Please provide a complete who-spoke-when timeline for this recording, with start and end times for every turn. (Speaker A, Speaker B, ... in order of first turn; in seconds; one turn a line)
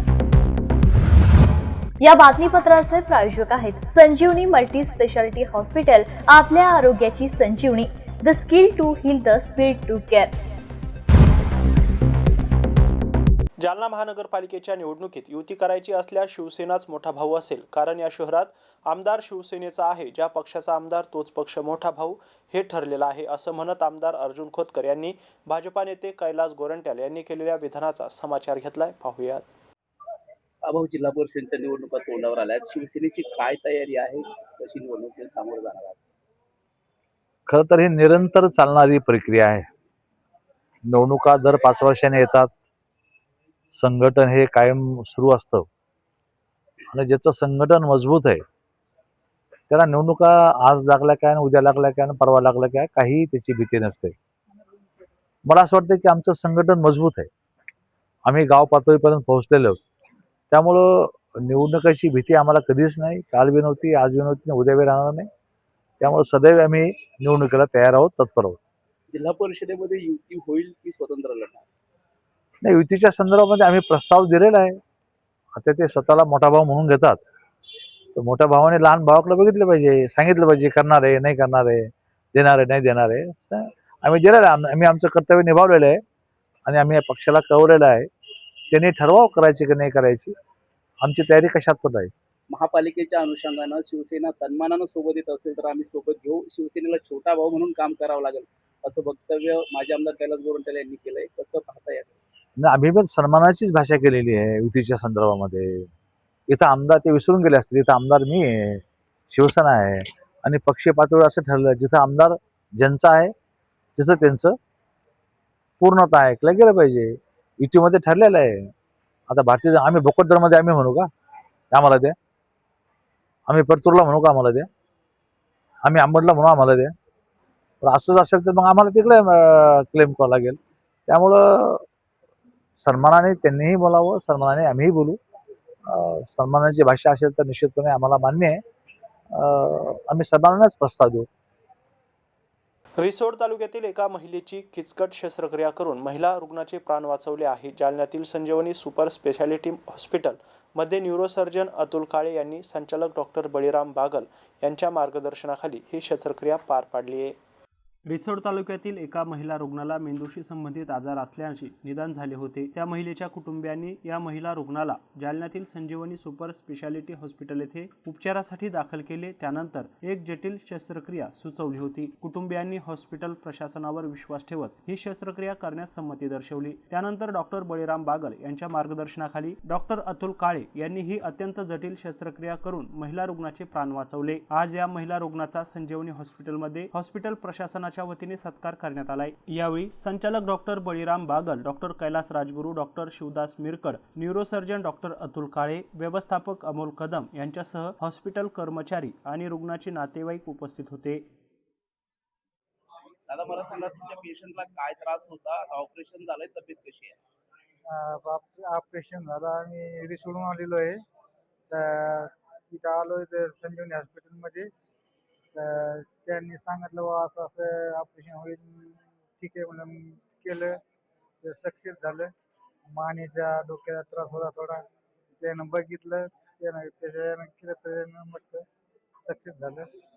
Speaker A: 2.0-10.3
Speaker B: 13.6-29.5
Speaker C: 30.6-36.0
Speaker D: 37.5-39.7
Speaker D: 40.9-42.5
Speaker D: 43.8-45.7
Speaker D: 46.9-48.4
Speaker D: 49.7-54.1
Speaker D: 55.5-57.3
Speaker D: 58.3-59.8
Speaker D: 60.5-65.3
Speaker D: 66.0-68.6
Speaker C: 69.1-71.7
Speaker D: 72.6-74.8
Speaker D: 75.6-77.2
Speaker D: 78.2-86.0
Speaker D: 86.7-88.1
Speaker D: 88.7-90.3
Speaker D: 91.0-92.1
Speaker C: 92.5-102.2
Speaker D: 102.6-105.9
Speaker D: 106.5-113.3
Speaker D: 114.0-114.5
Speaker D: 115.8-118.7
Speaker D: 119.3-121.1
Speaker D: 121.7-122.2
Speaker D: 123.5-124.7
Speaker D: 125.8-126.9
Speaker D: 127.8-130.6
Speaker D: 131.1-131.8
Speaker D: 132.8-135.2
Speaker D: 135.9-138.6
Speaker D: 139.3-141.3
Speaker B: 143.0-157.4
Speaker B: 158.1-201.2
Speaker C: 203.3-207.2
Speaker E: 207.9-211.0
Speaker E: 211.7-214.7
Speaker E: 215.6-220.8
Speaker E: 221.4-222.3
Speaker E: 222.9-224.9
Speaker E: 225.4-228.7
Speaker E: 229.2-229.9